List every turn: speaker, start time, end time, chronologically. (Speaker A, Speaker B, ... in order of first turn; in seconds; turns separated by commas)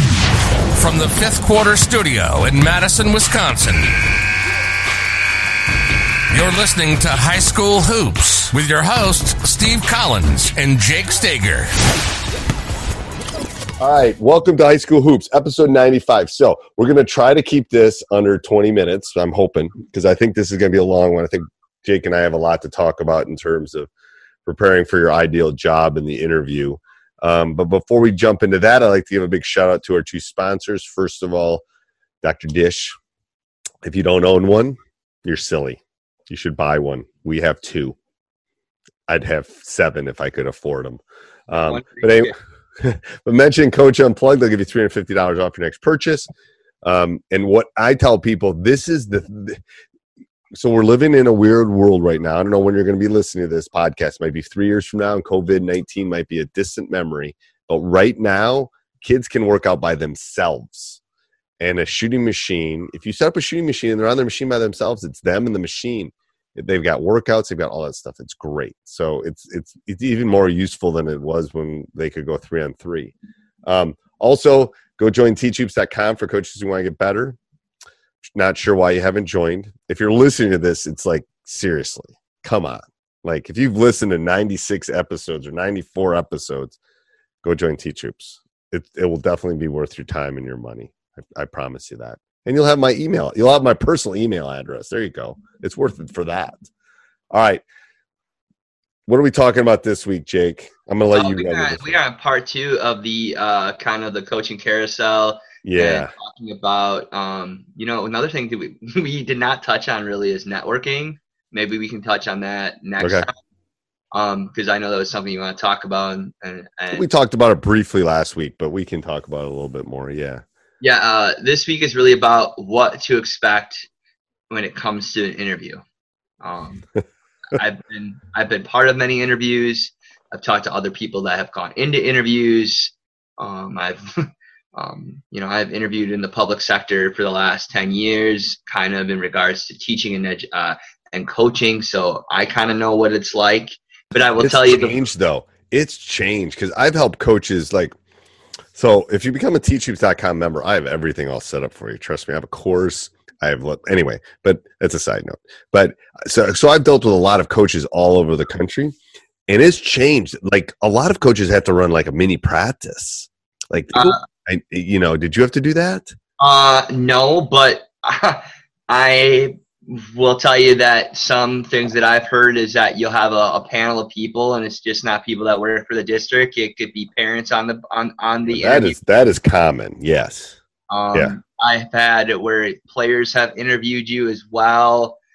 Speaker A: 0.7-3.9, Speaker A: 6.3-11.7, Speaker B: 13.8-23.9, Speaker B: 24.5-31.6, Speaker B: 32.2-33.0, Speaker B: 33.8-38.0, Speaker B: 39.1-46.3, Speaker C: 41.5-42.4, Speaker B: 46.8-49.6, Speaker B: 50.5-61.0, Speaker B: 61.6-73.1, Speaker B: 73.7-77.4, Speaker B: 78.3-86.8, Speaker B: 87.4-96.6, Speaker B: 97.3-97.6, Speaker B: 99.1-102.0, Speaker C: 101.1-113.3, Speaker B: 105.6-106.1, Speaker B: 113.0-113.3, Speaker C: 114.1-117.1, Speaker B: 116.9-120.4, Speaker C: 120.8-123.9, Speaker C: 124.5-125.8, Speaker C: 126.4-126.9, Speaker C: 127.5-134.0, Speaker C: 134.8-145.0, Speaker B: 144.4-148.0, Speaker B: 148.7-158.9, Speaker B: 159.5-166.1, Speaker C: 163.9-164.2, Speaker C: 166.4-179.0, Speaker B: 178.5-180.6, Speaker C: 180.9-185.2